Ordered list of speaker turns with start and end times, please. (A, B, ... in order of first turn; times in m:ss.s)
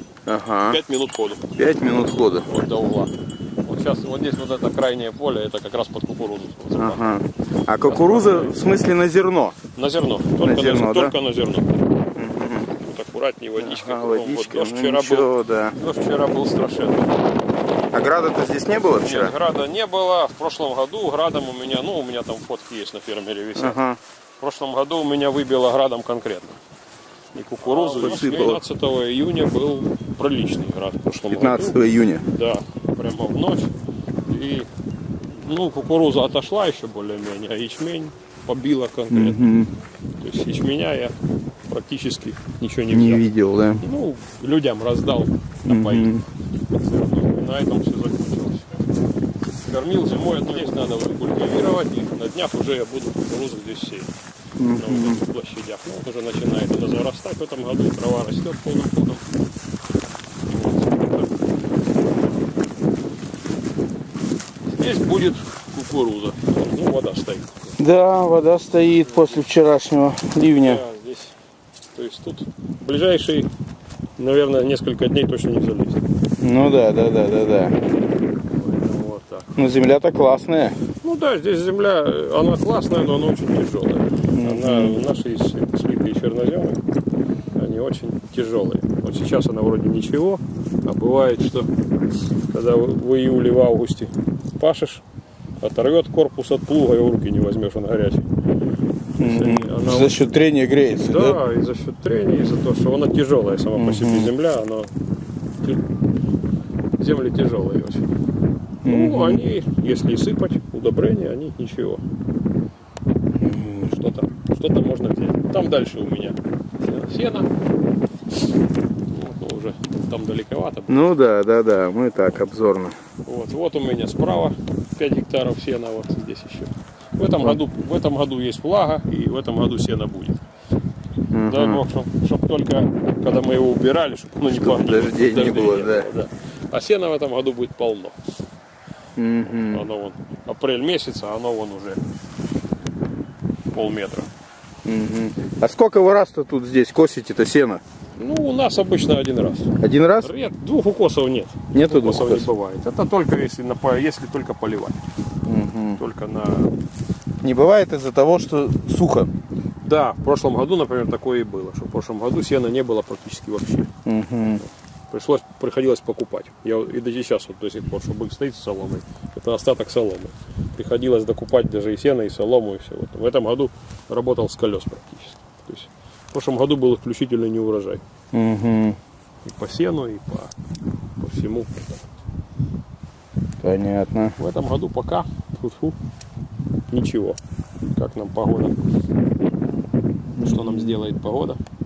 0:00.2-0:00.8 A
0:00.7-0:01.5 B
0:01.5-0:02.5 A
0:02.4-0:03.1 B
0:03.6-0:07.2 B
0:06.7-0:09.6 A
0:07.8-0:08.6 B
0:09.7-0:11.8 B
0:10.4-0:11.1 A
0:12.1-0:12.7 A
0:12.8-0:17.1 B
0:13.6-0:15.8 A
0:17.9-0:19.3 A
0:18.7-0:23.8 B
0:23.5-0:24.0 A
0:24.4-0:26.6 B
0:27.3-0:33.7 B
0:27.7-0:28.6 A
0:31.3-0:32.2 A
0:34.3-0:34.7 B
0:35.3-0:39.4 B
0:39.1-0:39.7 A
0:40.2-0:41.1 B
0:41.7-0:43.3 B
0:42.9-0:43.8 A
0:43.8-0:48.7 B
0:45.7-0:46.2 A
0:49.6-0:54.1 B
0:54.6-0:55.2 A
0:54.8-0:59.2 B
1:00.4-1:01.4 B
1:04.7-1:07.7 B
1:07.8-1:10.8 A
1:10.6-1:11.4 B
1:11.9-1:13.5 B
1:14.2-1:16.0 B
1:16.4-1:17.8 A
1:18.5-1:19.5 B
1:19.6-1:20.8 A
1:21.0-1:26.8 B
1:24.3-1:25.0 A
1:27.5-1:31.7 B
1:32.5-1:35.0 B
1:35.6-1:38.3 B
1:39.2-1:40.2 B
1:39.2-1:41.4 A
1:41.0-1:44.9 B
1:43.8-1:44.3 A
1:47.0-1:48.1 B
1:48.8-1:49.4 A
1:48.8-1:52.0 B
1:53.4-1:53.9 A
1:53.8-1:57.5 B
1:59.1-2:01.1 B
2:00.9-2:02.9 A
2:03.2-2:10.4 B
2:11.3-2:11.8 A
2:11.4-2:18.2 B
2:14.5-2:16.1 A
2:19.2-2:19.9 A
2:19.7-2:22.0 B
2:23.7-2:24.3 B
2:24.8-2:27.8 A
2:28.1-2:35.0 B
2:29.8-2:30.3 A
2:31.7-2:32.5 A
2:35.4-2:36.0 A
2:36.0-2:36.7 B
2:37.4-2:39.3 A
2:39.8-2:43.9 B
2:44.0-2:44.6 A
2:45.1-2:58.0 B
2:58.3-2:59.0 A
2:59.4-3:00.5 B
3:01.2-3:02.0 B
3:03.6-3:04.4 A
3:04.4-3:06.0 B
3:06.9-3:07.4 B
3:07.9-3:08.8 B
3:10.4-3:11.0 A
3:10.4-3:11.6 B